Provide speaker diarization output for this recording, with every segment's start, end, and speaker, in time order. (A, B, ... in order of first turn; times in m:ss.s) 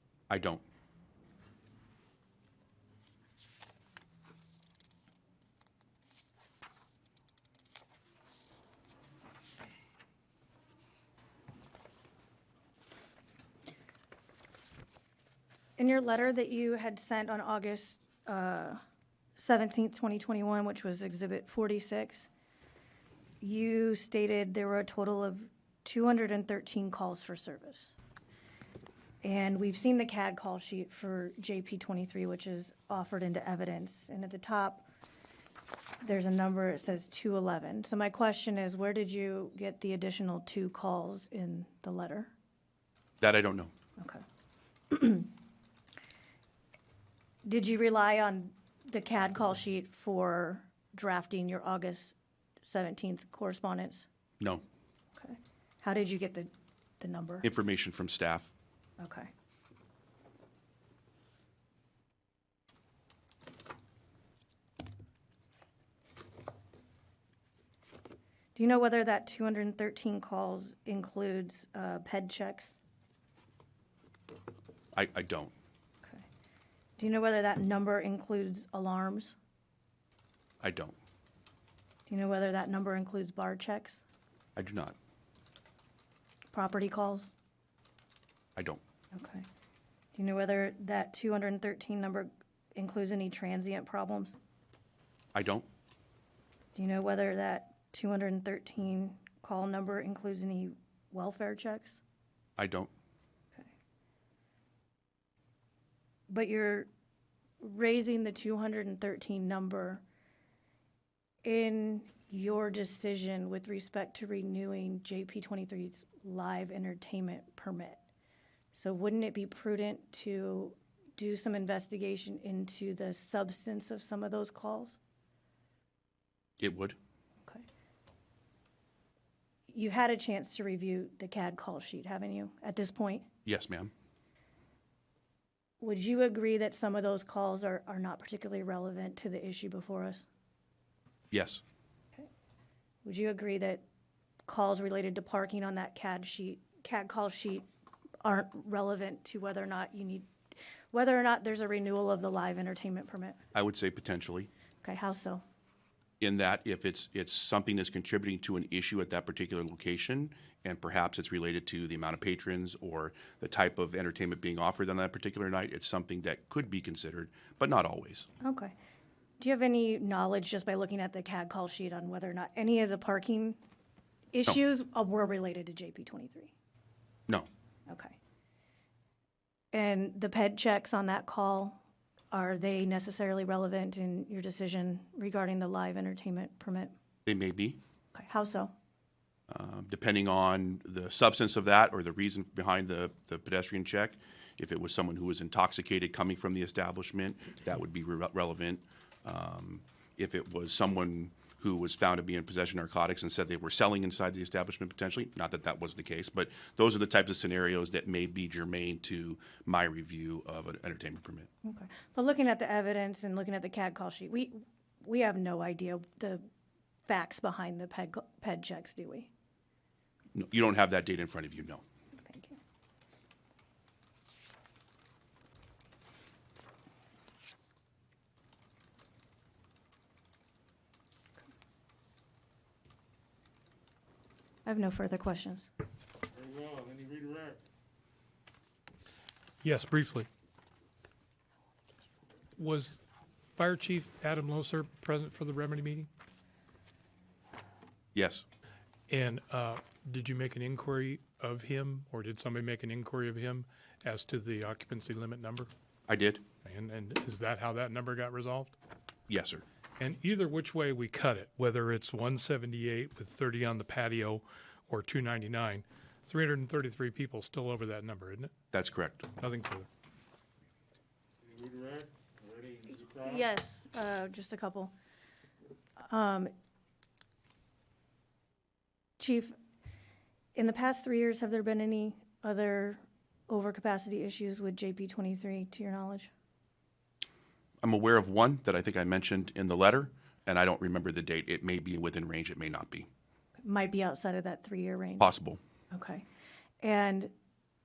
0:00.3-0:00.6 A
0:15.8-0:18.8 B
0:19.4-0:22.3 B
0:23.4-0:27.9 B
0:29.2-0:34.9 B
0:36.0-0:42.3 B
0:43.2-0:43.7 A
0:44.0-0:44.2 B
0:44.9-0:45.3 B
0:47.4-0:54.1 B
0:55.2-0:57.5 B
0:57.4-0:58.5 A
0:59.0-0:59.3 B
1:08.6-1:12.8 B
1:14.9-1:15.5 A
1:17.0-1:19.4 B
1:20.6-1:21.0 A
1:22.1-1:24.0 B
1:24.6-1:25.0 A
1:26.5-1:27.3 B
1:28.6-1:28.8 A
1:29.1-1:29.5 B
1:30.1-1:34.4 B
1:35.3-1:35.7 A
1:36.8-1:42.0 B
1:42.6-1:42.9 A
1:46.3-1:46.9 B
1:47.6-1:50.0 B
1:51.4-1:58.0 B
1:58.7-2:05.0 B
2:06.6-2:07.0 A
2:09.7-2:13.3 B
2:13.5-2:13.9 A
2:15.8-2:20.3 B
2:21.3-2:21.6 A
2:23.0-2:23.8 B
2:24.5-2:27.7 B
2:28.2-2:30.3 B
2:30.9-2:33.4 B
2:33.5-2:34.5 A
2:34.8-2:35.4 B
2:36.2-2:48.3 A
2:48.4-2:48.8 B
2:49.4-2:53.6 B
2:54.3-2:56.5 B
2:57.9-2:58.2 B
2:59.7-3:01.8 B
3:02.3-3:06.9 B
3:07.3-3:07.8 A
3:08.1-3:08.7 B
3:09.5-3:31.5 A
3:31.6-3:36.5 B
3:37.1-3:39.3 B
3:40.3-3:41.8 A
3:42.2-3:42.6 B
3:54.6-3:55.7 B
3:56.3-3:57.6 C
3:59.6-4:00.3 D
4:02.6-4:03.0 D
4:03.6-4:06.1 D
4:08.1-4:08.5 A
4:09.1-4:15.7 D
4:16.1-4:16.4 A
4:16.6-4:18.7 D
4:19.3-4:19.6 A
4:20.0-4:28.5 D
4:28.7-4:29.3 A
4:29.4-4:29.9 D
4:31.4-4:33.4 C
4:33.2-4:34.9 B
4:36.1-4:36.5 B
4:39.2-4:39.6 B
4:40.6-4:46.3 B
4:47.8-4:53.1 A
4:53.6-4:55.3 B
4:55.2-4:55.6 A
4:55.9-4:56.3 B
4:56.8-4:57.3 B